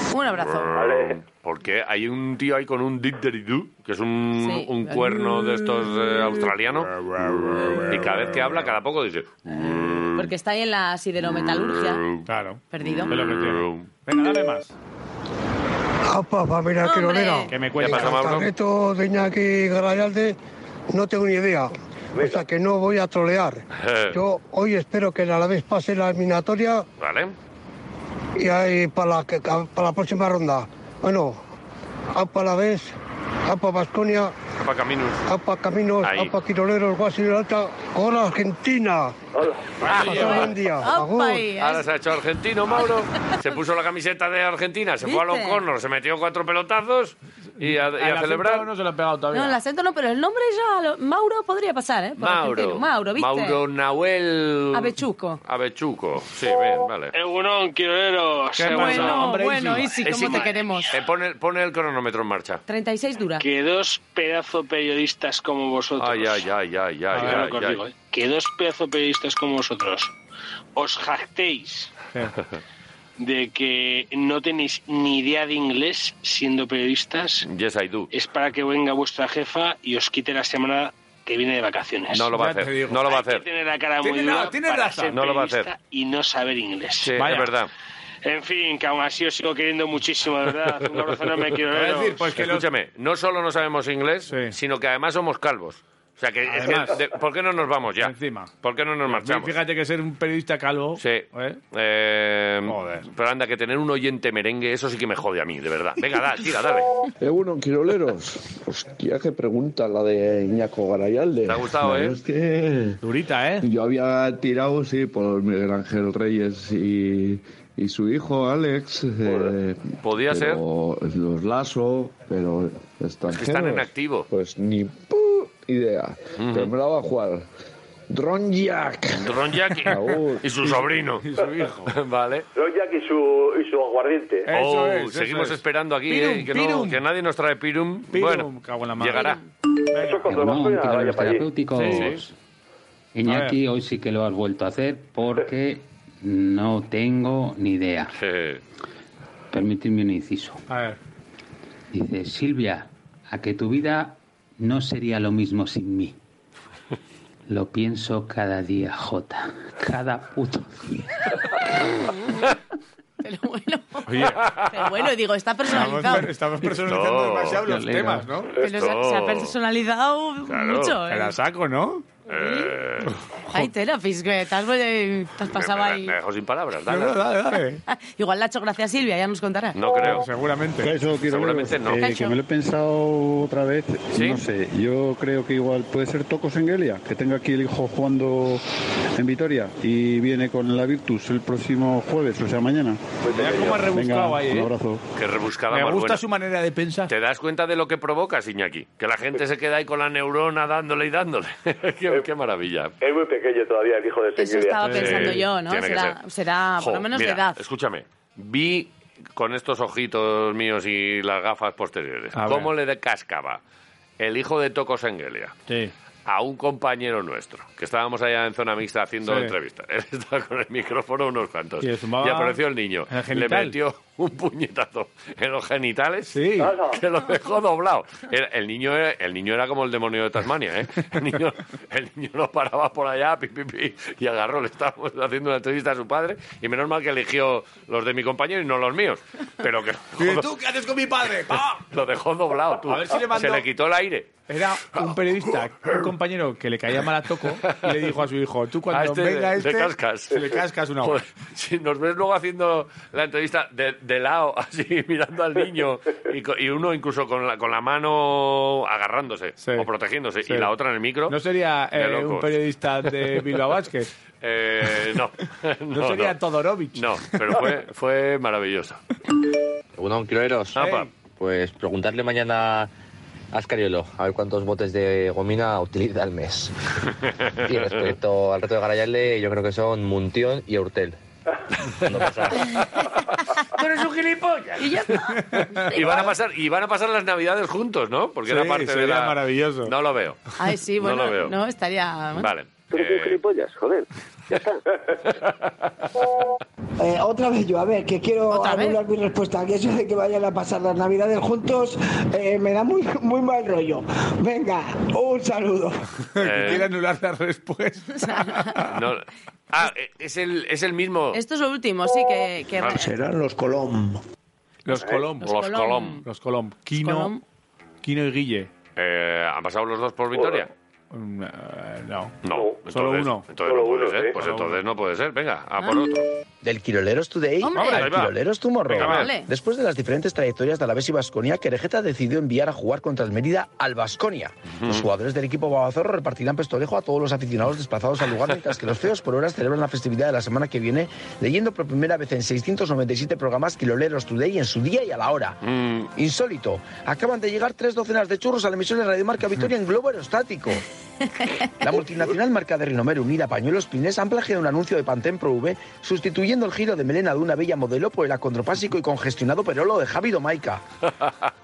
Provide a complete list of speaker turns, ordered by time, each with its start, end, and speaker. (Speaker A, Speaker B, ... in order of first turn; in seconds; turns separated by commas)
Speaker A: 0.1-0.7, Speaker B: 0.3-10.3, Speaker C: 0.7-1.2, Speaker A: 4.4-5.5, Speaker D: 6.9-8.5, Speaker A: 10.1-12.1, Speaker B: 11.3-12.3, Speaker D: 12.2-14.7, Speaker A: 12.7-13.1, Speaker B: 13.0-13.9, Speaker E: 16.1-20.4, Speaker A: 16.8-17.5, Speaker D: 17.5-18.4, Speaker B: 17.8-18.5, Speaker E: 20.9-26.9, Speaker C: 22.1-22.4, Speaker B: 23.8-24.1, Speaker B: 27.0-27.3, Speaker E: 28.4-31.4, Speaker E: 32.1-32.9, Speaker E: 33.5-34.3, Speaker B: 34.6-35.2, Speaker E: 35.3-39.1, Speaker B: 36.0-36.3, Speaker C: 39.3-39.9, Speaker D: 39.8-40.4, Speaker B: 39.8-40.5, Speaker E: 39.9-41.5, Speaker A: 40.2-41.9, Speaker B: 41.6-48.7, Speaker A: 42.8-43.3, Speaker A: 45.0-45.6, Speaker D: 47.6-49.6, Speaker A: 49.3-53.6, Speaker B: 52.2-57.1, Speaker A: 54.7-55.4, Speaker F: 57.1-59.1, Speaker D: 58.5-60.0, Speaker B: 58.7-59.2, Speaker A: 58.7-61.0, Speaker B: 60.0-62.6, Speaker F: 60.2-60.5, Speaker A: 62.7-63.5, Speaker F: 63.4-66.4, Speaker B: 66.0-67.8, Speaker D: 67.1-67.5, Speaker F: 67.2-70.1, Speaker F: 70.8-71.9, Speaker F: 73.2-77.5, Speaker B: 77.4-78.1, Speaker F: 78.1-82.3, Speaker B: 82.1-83.5, Speaker D: 82.3-83.0, Speaker F: 83.0-87.2, Speaker D: 84.0-85.2, Speaker B: 85.1-85.7, Speaker B: 87.0-87.7, Speaker D: 87.2-87.6, Speaker F: 88.2-92.3, Speaker B: 90.9-91.4, Speaker D: 91.7-92.7, Speaker B: 92.3-99.6, Speaker D: 94.3-94.5, Speaker D: 96.5-97.0, Speaker D: 98.0-98.5, Speaker D: 99.1-101.6, Speaker B: 101.0-106.9, Speaker D: 102.7-103.1, Speaker G: 107.2-113.0, Speaker B: 111.4-112.2, Speaker D: 113.0-113.6, Speaker G: 113.6-127.5, Speaker B: 119.2-120.6, Speaker B: 123.3-124.3, Speaker B: 126.4-126.7, Speaker G: 128.1-130.7, Speaker B: 129.2-131.3, Speaker D: 131.2-131.9, Speaker B: 131.8-132.5, Speaker C: 132.5-134.5, Speaker D: 134.4-137.0, Speaker B: 134.5-139.4, Speaker D: 138.1-139.3, Speaker A: 139.1-139.4, Speaker D: 139.9-140.3, Speaker C: 139.9-141.6, Speaker H: 140.3-142.3, Speaker D: 141.7-142.2, Speaker B: 141.9-142.2, Speaker H: 143.1-148.2, Speaker D: 143.2-143.6, Speaker B: 148.1-148.6, Speaker H: 149.5-150.6, Speaker D: 150.7-151.0, Speaker H: 151.9-156.2, Speaker H: 157.5-161.3, Speaker A: 162.0-162.5, Speaker A: 163.2-166.3, Speaker D: 164.1-164.6, Speaker B: 164.3-164.9, Speaker D: 165.6-168.5, Speaker B: 166.8-167.7, Speaker H: 167.6-168.4, Speaker B: 168.6-169.5, Speaker A: 168.6-171.3, Speaker B: 170.4-171.0, Speaker D: 171.1-172.2, Speaker B: 172.3-173.2, Speaker A: 172.3-172.7, Speaker D: 173.1-173.7, Speaker A: 173.5-176.2, Speaker B: 175.4-177.2, Speaker D: 176.9-177.8, Speaker A: 177.9-179.8, Speaker B: 179.7-180.2, Speaker D: 180.0-180.9, Speaker I: 180.8-188.6, Speaker B: 181.3-182.2, Speaker A: 181.9-182.4, Speaker B: 184.1-184.4, Speaker I: 189.2-193.0, Speaker C: 193.2-193.9, Speaker D: 193.3-194.7, Speaker I: 193.8-195.0, Speaker B: 195.2-196.2, Speaker D: 195.7-197.1, Speaker B: 197.1-202.9, Speaker C: 203.0-204.8, Speaker A: 204.3-207.6, Speaker D: 204.8-205.5, Speaker B: 204.8-206.2, Speaker B: 206.8-213.6, Speaker D: 212.3-212.7, Speaker B: 214.2-215.5, Speaker D: 215.7-215.9, Speaker B: 216.2-240.5, Speaker D: 219.2-219.5, Speaker D: 221.8-222.6, Speaker D: 223.1-223.8, Speaker D: 226.3-226.7, Speaker C: 226.6-227.0, Speaker D: 240.2-241.8, Speaker B: 241.8-244.4, Speaker D: 242.8-243.7, Speaker D: 244.5-251.2, Speaker B: 247.6-248.1, Speaker B: 248.9-261.4, Speaker D: 259.6-259.9, Speaker D: 260.4-260.7, Speaker D: 261.3-264.1, Speaker B: 261.9-262.5, Speaker B: 264.4-266.4, Speaker D: 265.9-267.6, Speaker B: 266.9-269.0, Speaker J: 270.0-272.9, Speaker B: 270.7-271.1, Speaker D: 270.7-271.1, Speaker J: 273.5-276.7, Speaker B: 277.2-278.1, Speaker J: 277.6-281.1, Speaker B: 282.1-283.1, Speaker J: 282.1-282.5, Speaker B: 283.7-285.3, Speaker A: 284.8-285.9, Speaker D: 285.3-286.3, Speaker B: 285.9-290.4, Speaker D: 288.4-289.9, Speaker A: 290.6-292.5, Speaker B: 291.0-291.5, Speaker B: 292.3-293.4, Speaker B: 295.3-295.7, Speaker K: 297.0-306.0, Speaker A: 298.5-299.0, Speaker D: 306.3-309.0, Speaker B: 306.4-306.9, Speaker A: 308.1-308.7, Speaker B: 308.8-311.4, Speaker A: 311.3-313.1, Speaker G: 312.9-314.2, Speaker D: 314.9-315.6, Speaker C: 314.9-315.2, Speaker B: 315.4-316.2, Speaker A: 315.4-316.2, Speaker D: 316.2-317.3, Speaker A: 317.0-317.4, Speaker D: 318.0-318.7, Speaker B: 318.9-320.7, Speaker C: 320.3-320.6, Speaker D: 321.1-322.3, Speaker B: 322.4-326.3, Speaker C: 322.5-322.8, Speaker D: 322.9-323.5, Speaker C: 323.6-324.4, Speaker D: 324.3-324.8, Speaker A: 325.8-326.1, Speaker L: 326.6-345.6, Speaker A: 327.6-328.0, Speaker D: 327.7-328.3, Speaker B: 328.9-329.3, Speaker D: 328.9-329.3, Speaker A: 329.1-329.5, Speaker B: 345.6-346.1, Speaker L: 346.1-350.8, Speaker L: 351.8-360.8, Speaker B: 361.1-361.5